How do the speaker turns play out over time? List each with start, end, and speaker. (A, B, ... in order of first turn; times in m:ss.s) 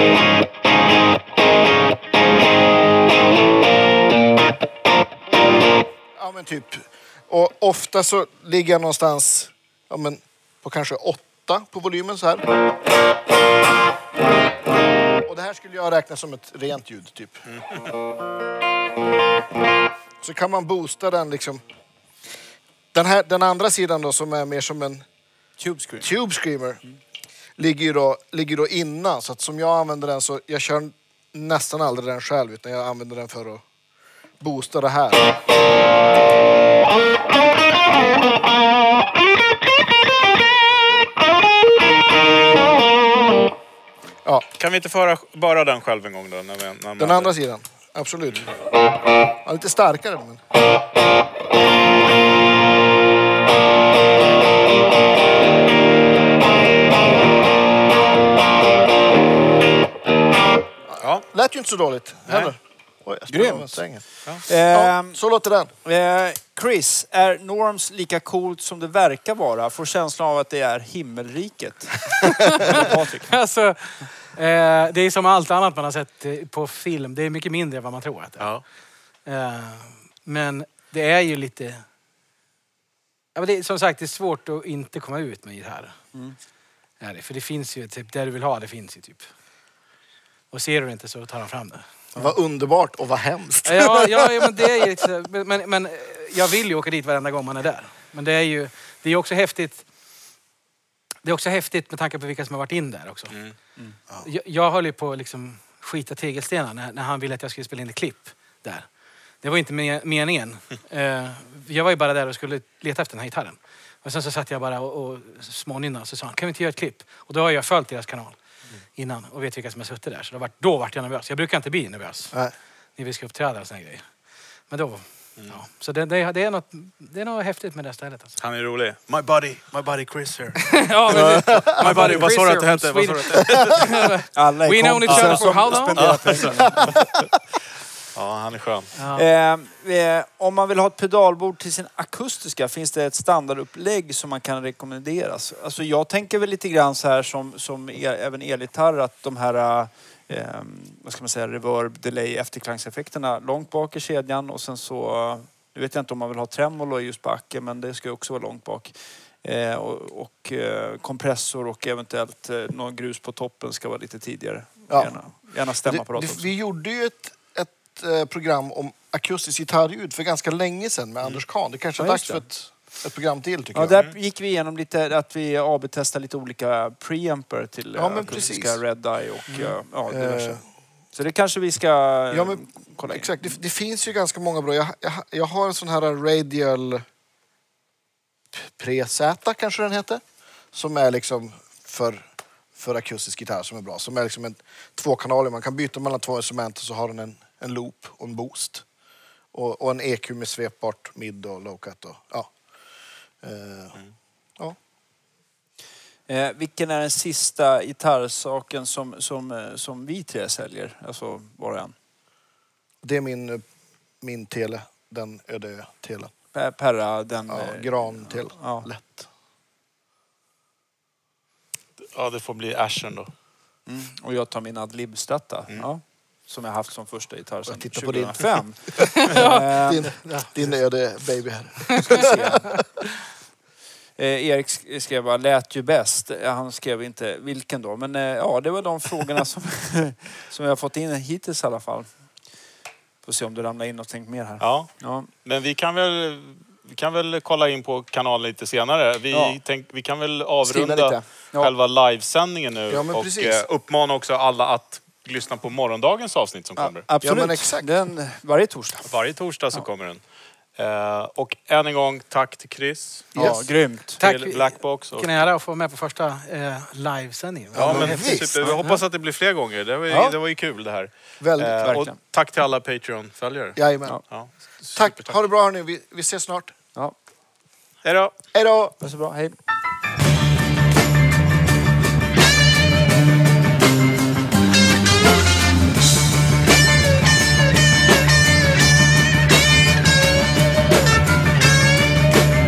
0:06.2-0:12.5 A
0:15.2-0:17.4 A
0:17.5-0:17.9 B
0:20.2-0:21.6 A
0:22.9-0:25.0 A
0:25.6-0:26.1 C
0:26.0-0:26.8 A
0:27.6-0:33.6 A
0:34.4-0:35.3 A
0:44.6-0:47.3 B
0:47.0-0:48.5 A
0:49.4-0:50.4 A
1:01.0-1:01.2 B
1:01.0-1:05.7 A
1:03.3-1:03.8 C
1:04.4-1:05.2 C
1:05.8-1:13.3 C
1:12.4-1:18.5 D
1:19.3-1:21.8 D
1:23.4-1:26.0 D
1:27.0-1:29.3 D
1:30.5-1:31.9 D
1:32.2-1:34.7 A
1:33.6-1:39.8 D
1:41.2-1:43.3 D
1:44.2-1:48.9 D
1:49.4-1:58.4 D
1:59.0-2:02.4 D
2:03.0-2:04.0 D
2:04.7-2:08.4 D
2:08.4-2:14.1 B
2:10.6-2:16.5 D
2:11.1-2:12.2 A
2:14.4-2:17.0 C
2:15.1-2:17.0 B
2:18.1-2:18.9 B
2:19.0-2:19.3 D
2:19.1-2:46.5 C
2:44.9-2:45.2 A
2:45.8-2:54.0 A
2:52.0-2:52.4 C
2:53.7-3:00.6 C
2:58.0-2:58.8 A
2:58.2-2:58.5 B
3:00.1-3:00.6 A
3:01.2-3:03.5 C
3:02.3-3:07.0 A
3:08.5-3:10.2 A
3:10.7-3:18.8 A
3:19.5-3:22.5 A
3:23.4-3:24.0 A
3:26.3-3:31.9 C
3:33.0-3:33.6 A
3:34.2-3:36.3 A
3:36.5-3:38.9 C
3:37.5-3:39.3 A
3:42.1-3:43.3 B
3:43.9-3:50.1 C
3:47.7-3:52.7 A
3:49.0-3:50.5 D
3:52.0-3:52.8 C
3:54.2-4:02.1 C
4:03.2-4:05.3 C
4:04.6-4:17.0 B
4:09.3-4:09.6 C
4:10.6-4:11.7 C
4:12.9-4:13.6 A
4:16.8-4:19.1 C
4:17.2-4:17.9 A
4:19.0-4:20.2 B
4:20.8-4:23.5 B
4:23.4-4:23.6 A
4:23.4-4:24.2 C
4:24.2-4:25.4 B
4:24.2-4:29.0 D
4:27.7-4:28.8 A
4:27.8-4:33.8 B
4:31.4-4:32.0 A
4:31.8-4:32.2 C
4:33.8-4:34.2 A
4:34.3-4:35.3 B
4:35.0-4:36.8 A
4:38.0-4:38.3 B
4:38.5-4:39.0 A
4:39.0-4:39.6 C